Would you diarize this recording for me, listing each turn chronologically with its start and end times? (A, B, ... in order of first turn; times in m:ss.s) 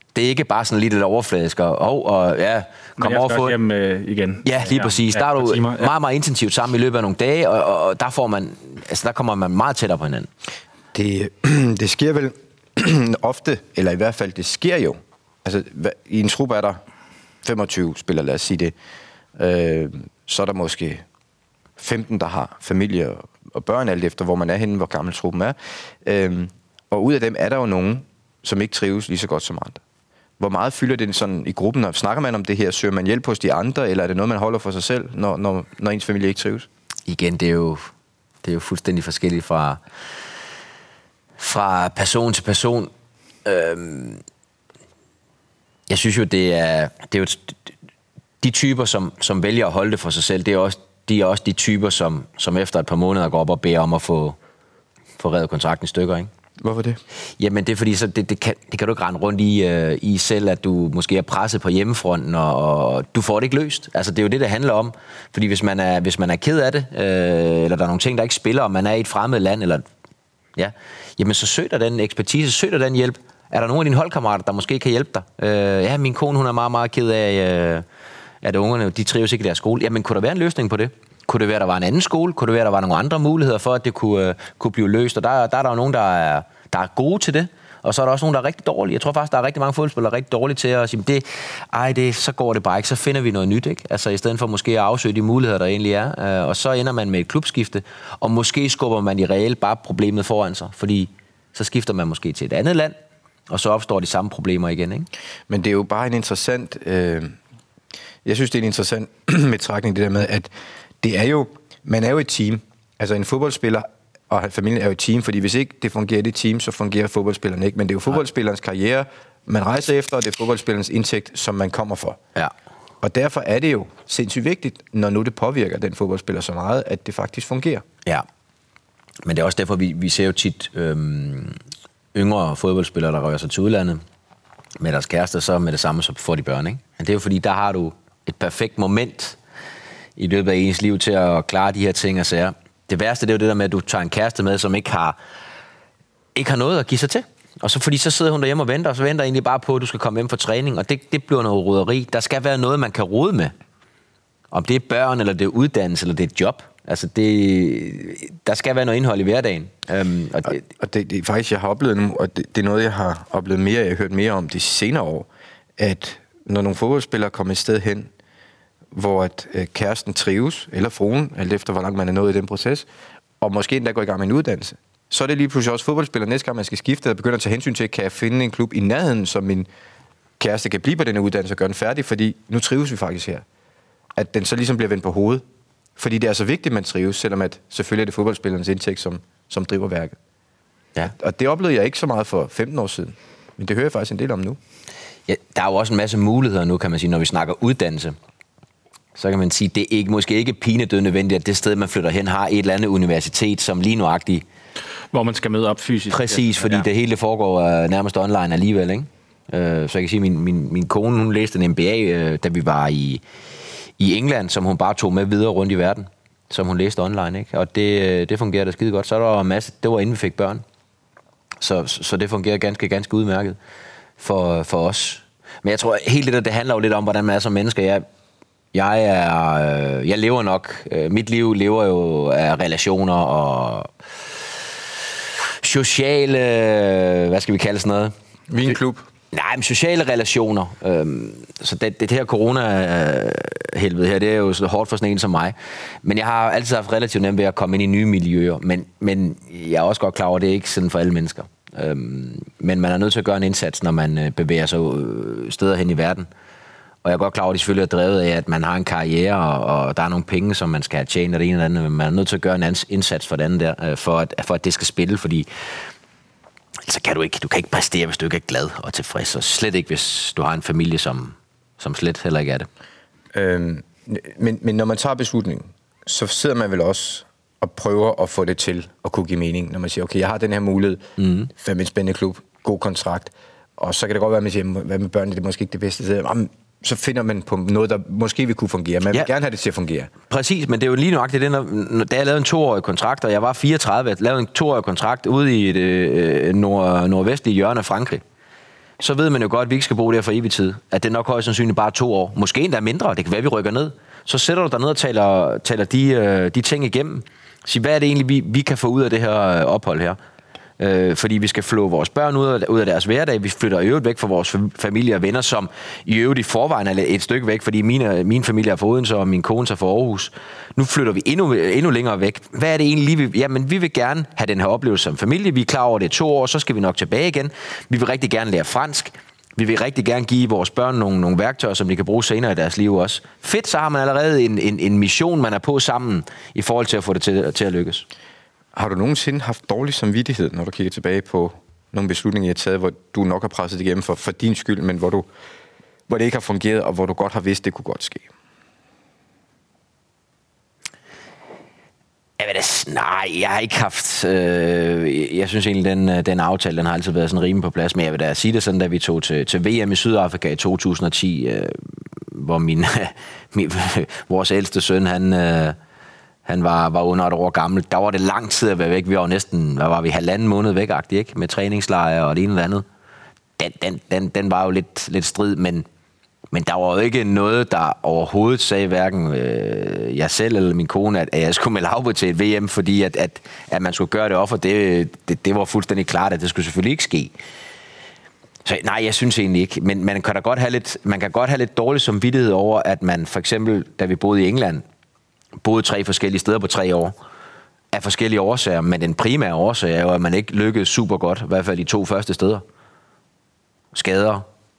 0:00.1-0:03.6 A
0:03.0-0:05.9 B
0:04.4-0:10.3 A
0:10.9-0:16.8 C
0:17.4-0:18.7 C
0:19.4-0:21.0 C
0:21.8-0:29.8 C
0:30.4-0:36.7 C
0:37.1-0:37.9 A
0:38.4-0:39.8 A
0:41.4-0:42.9 A
0:43.4-0:44.2 A
0:45.9-0:47.6 A
0:48.4-0:54.4 A
0:55.2-0:56.3 A
0:56.6-0:57.0 C
0:57.4-1:09.8 A
1:10.6-1:17.8 A
1:18.4-1:43.0 A
1:43.5-1:45.1 A
1:45.5-1:47.4 C
1:48.2-1:50.5 C
1:51.0-2:02.2 C
2:03.0-2:07.8 C
2:09.2-2:11.6 A
2:12.1-2:14.0 A
2:14.8-2:19.4 A
2:20.2-2:25.2 A
2:26.3-2:33.5 A
2:34.5-2:40.6 A
2:40.5-2:48.1 C
2:48.9-2:52.9 C
2:53.4-2:59.7 C
3:00.4-3:03.4 C
3:04.1-3:05.4 C
3:06.0-3:10.2 C
3:11.0-3:14.6 C
3:15.3-3:18.2 A
3:19.2-3:24.4 A
3:25.1-3:26.8 B
3:26.1-3:33.2 A
3:34.0-3:40.6 A
3:41.6-3:43.6 A
3:44.2-3:48.0 A
3:48.7-3:53.9 A
3:55.6-3:58.1 A
3:58.5-3:59.0 C
3:59.3-4:16.3 A
4:17.0-4:25.5 A
4:26.9-4:32.7 A
4:33.3-4:50.1 C
4:41.2-4:41.5 A
4:50.3-4:58.2 A
4:59.0-5:10.2 A
5:10.8-5:38.0 A
5:38.7-5:45.3 C
5:46.1-5:48.3 C
5:52.4-6:05.8 A
6:06.4-6:12.8 A
6:13.6-6:15.9 A
6:16.5-6:27.3 A
6:28.6-6:34.8 A
6:35.6-6:37.2 A
6:37.9-6:42.6 A
6:43.9-6:44.4 A